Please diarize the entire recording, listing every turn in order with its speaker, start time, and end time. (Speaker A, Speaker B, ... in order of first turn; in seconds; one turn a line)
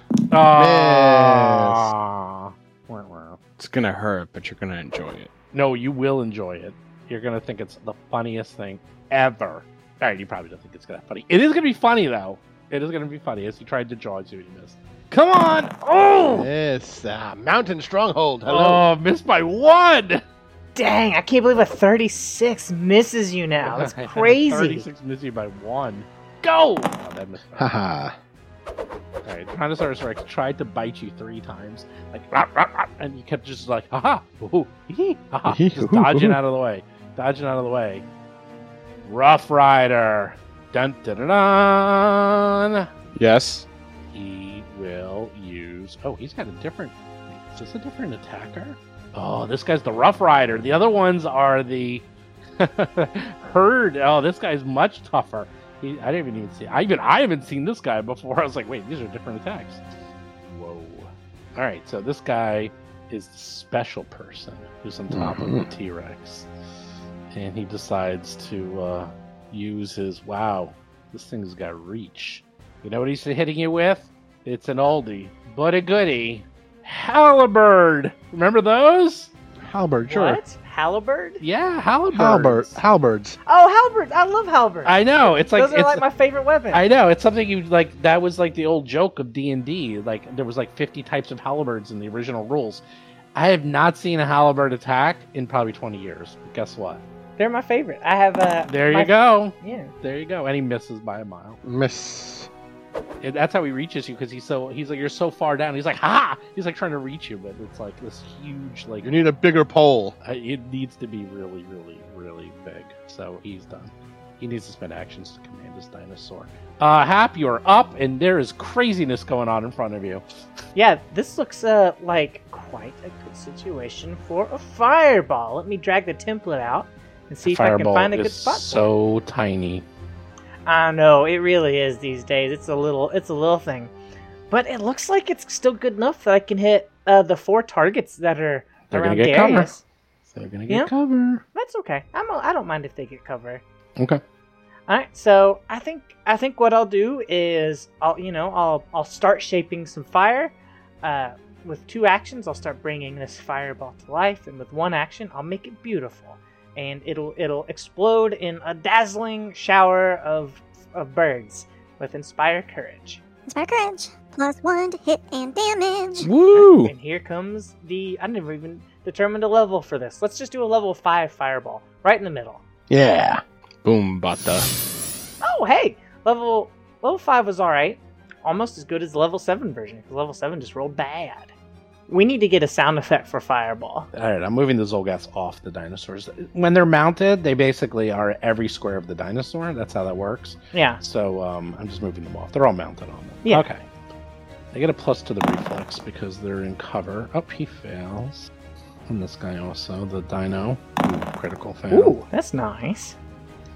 Speaker A: 0.3-3.4
Speaker B: 0.5-1.9
Speaker C: 3.6-5.3
Speaker A: 5.5-16.5
Speaker B: 16.3-18.9
Speaker A: 18.4-20.2
Speaker D: 20.8-24.8
Speaker A: 23.6-27.7
Speaker B: 27.6-28.1
Speaker A: 29.2-38.0
Speaker B: 35.5-36.4
Speaker A: 39.0-42.9
Speaker C: 43.1-43.6
Speaker A: 44.1-52.0
Speaker A: 52.6-59.8
Speaker A: 60.4-66.5
Speaker B: 65.1-65.7
Speaker A: 67.3-79.3
Speaker B: 79.6-80.4
Speaker D: 80.0-81.4
Speaker A: 81.4-82.8
Speaker B: 82.1-83.4
Speaker D: 83.5-86.8
Speaker A: 84.8-86.0
Speaker A: 86.7-92.8
Speaker A: 93.3-97.0
Speaker D: 97.4-99.9
Speaker A: 98.7-101.6
Speaker B: 101.6-102.5
Speaker A: 103.2-109.1
Speaker B: 109.0-110.2
Speaker A: 110.2-120.2
Speaker D: 120.7-128.9
Speaker A: 127.4-129.8
Speaker D: 130.7-133.9
Speaker D: 134.5-139.8
Speaker A: 138.9-139.7
Speaker A: 140.3-141.4
Speaker D: 141.5-143.6
Speaker D: 144.9-163.2
Speaker E: 163.5-166.3
Speaker C: 166.2-166.9
Speaker D: 166.5-172.6
Speaker B: 172.9-173.4
Speaker C: 173.8-174.7
Speaker D: 175.4-181.5
Speaker D: 182.1-184.1
Speaker A: 184.1-193.8
Speaker D: 190.7-191.0
Speaker A: 194.7-198.5
Speaker A: 199.1-202.2
Speaker D: 201.9-203.1